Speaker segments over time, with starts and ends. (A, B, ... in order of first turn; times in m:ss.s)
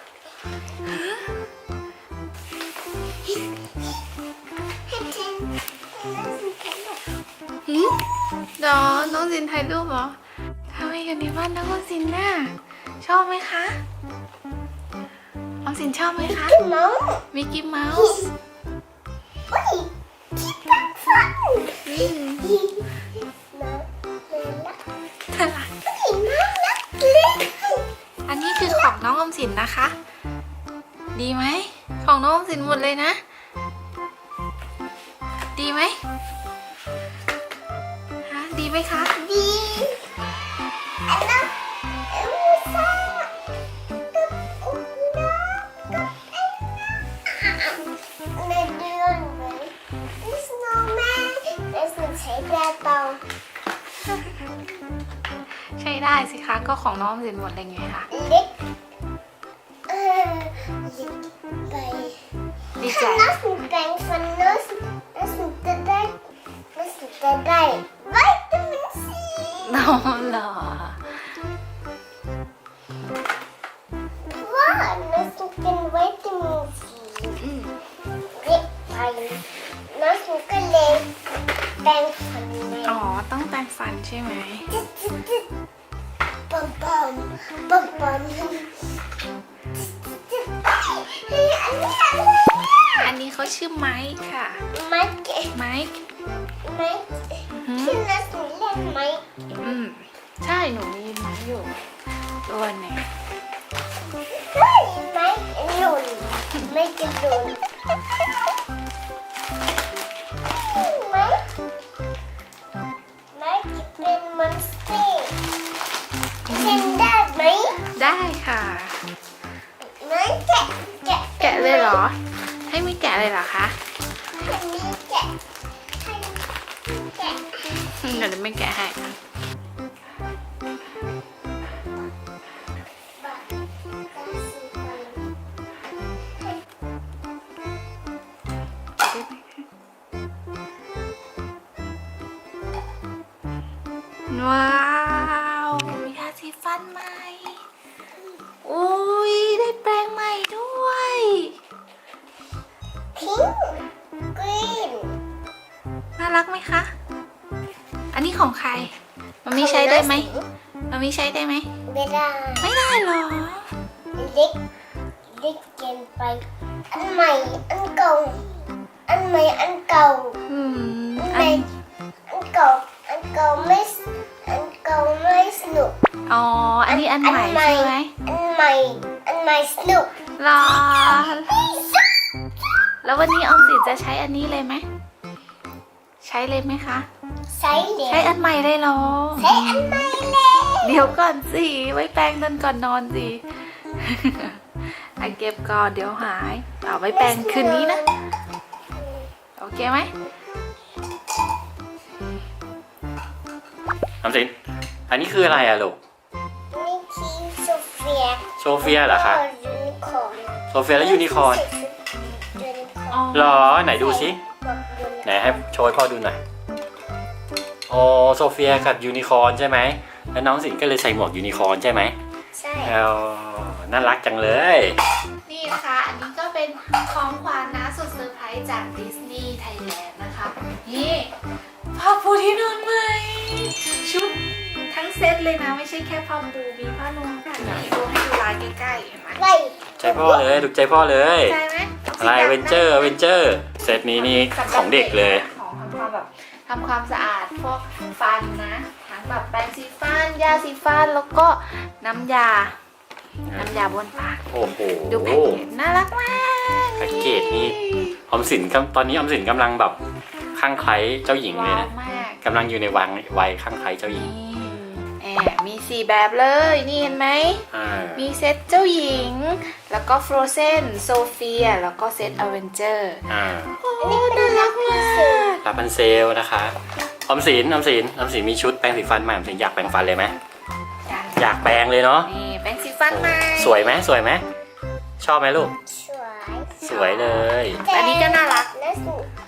0:00.8-0:01.4 A
0:04.9-0:07.0 B
0:07.7-0:08.0 A
0:08.6-0:10.2 A
0:10.7-0:13.8 A
0:15.6-0:16.6 A
0:16.2-0:17.2 B
0:17.3-0:18.2 A
0:17.9-0:18.3 B
0:19.5-0:24.8 B
0:21.8-0:22.5 A
0:25.3-0:25.7 A
0:25.8-0:27.9 B
0:28.3-0:29.9 A
0:31.1-0:33.2 A
0:35.6-0:36.0 A
0:38.2-0:39.2 A
0:39.2-0:40.0 B
0:41.1-0:41.5 B
0:42.1-0:43.3 B
0:44.1-0:53.2 B
0:54.1-0:54.4 A
0:55.8-0:58.1 A
0:58.1-0:58.5 B
0:59.9-1:02.2 B
1:02.8-1:03.4 A
1:02.8-1:06.2 B
1:06.7-1:10.0 B
1:09.6-1:11.0 A
1:14.3-1:17.4 B
1:17.4-1:17.7 A
1:18.3-1:21.1 B
1:21.8-1:23.0 B
1:22.8-1:24.7 A
1:24.7-1:25.4 B
1:26.5-1:28.8 B
1:29.9-1:33.1 B
1:33.0-1:34.6 A
1:34.7-1:35.5 B
1:35.5-1:35.9 A
1:36.6-1:39.2 B
1:37.5-1:38.0 A
1:39.6-1:41.8 A
1:42.4-1:43.1 A
1:44.3-1:47.6 B
1:50.4-1:51.5 B
1:53.3-1:55.4 B
1:56.5-1:57.1 A
1:56.5-1:57.8 B
1:57.9-1:59.0 A
1:59.8-2:02.0 B
2:01.4-2:03.8 A
2:04.3-2:05.4 B
2:06.0-2:07.7 B
2:07.8-2:09.2 A
2:13.2-2:15.2 B
2:19.0-2:19.6 A
2:24.3-2:27.6 A
2:28.6-2:31.5 A
2:33.1-2:33.8 B
2:34.3-2:35.2 B
2:36.2-2:36.9 A
2:38.1-2:38.9 A
2:39.4-2:40.3 A
2:39.5-2:40.4 B
2:40.9-2:41.7 A
2:41.9-2:42.7 B
2:42.6-2:43.7 A
2:44.2-2:44.6 B
2:45.3-2:48.5 B
2:49.1-2:50.4 B
2:50.5-2:51.7 A
2:51.2-2:51.6 B
2:52.3-2:56.0 B
2:56.3-2:58.1 A
2:56.9-3:00.2 B
3:00.4-3:01.5 A
3:01.0-3:02.0 B
3:03.0-3:04.8 A
3:06.2-3:07.1 A
3:07.5-3:08.4 B
3:08.1-3:10.1 A
3:09.4-3:11.1 B
3:10.8-3:18.0 A
3:17.1-3:18.1 B
3:19.0-3:19.3 B
3:19.6-3:20.1 A
3:24.2-3:24.5 C
3:25.1-3:26.0 C
3:26.7-3:33.3 B
3:28.6-3:29.4 C
3:30.7-3:31.6 C
3:33.1-3:33.8 A
3:33.3-3:34.4 C
3:33.8-3:35.6 B
3:35.2-3:36.4 C
3:37.9-3:42.1 C
3:42.5-3:43.0 B
3:42.8-3:45.0 C
3:45.4-3:51.3 A
3:51.9-3:59.4 A
3:59.3-4:00.4 B
4:00.0-4:01.6 C
4:01.4-4:03.1 A
4:02.2-4:05.4 C
4:03.9-4:12.8 A
4:13.5-4:13.7 C
4:13.5-4:14.4 A
4:14.5-4:15.6 C
4:15.1-4:18.2 A
4:17.0-4:20.0 C
4:20.5-4:21.9 C
4:21.4-4:22.4 A
4:22.4-4:24.3 C
4:24.1-4:35.6 A
4:27.7-4:28.3 C
4:33.3-4:33.8 C
4:34.0-4:35.6 B
4:35.6-4:40.3 C
4:41.0-4:41.6 A
4:41.4-4:42.3 C
4:42.2-4:43.9 A
4:43.1-4:44.4 C
4:45.2-4:45.7 C
4:45.9-4:46.8 B
4:46.8-4:48.7 A
4:46.8-4:47.8 C
4:47.8-4:49.3 B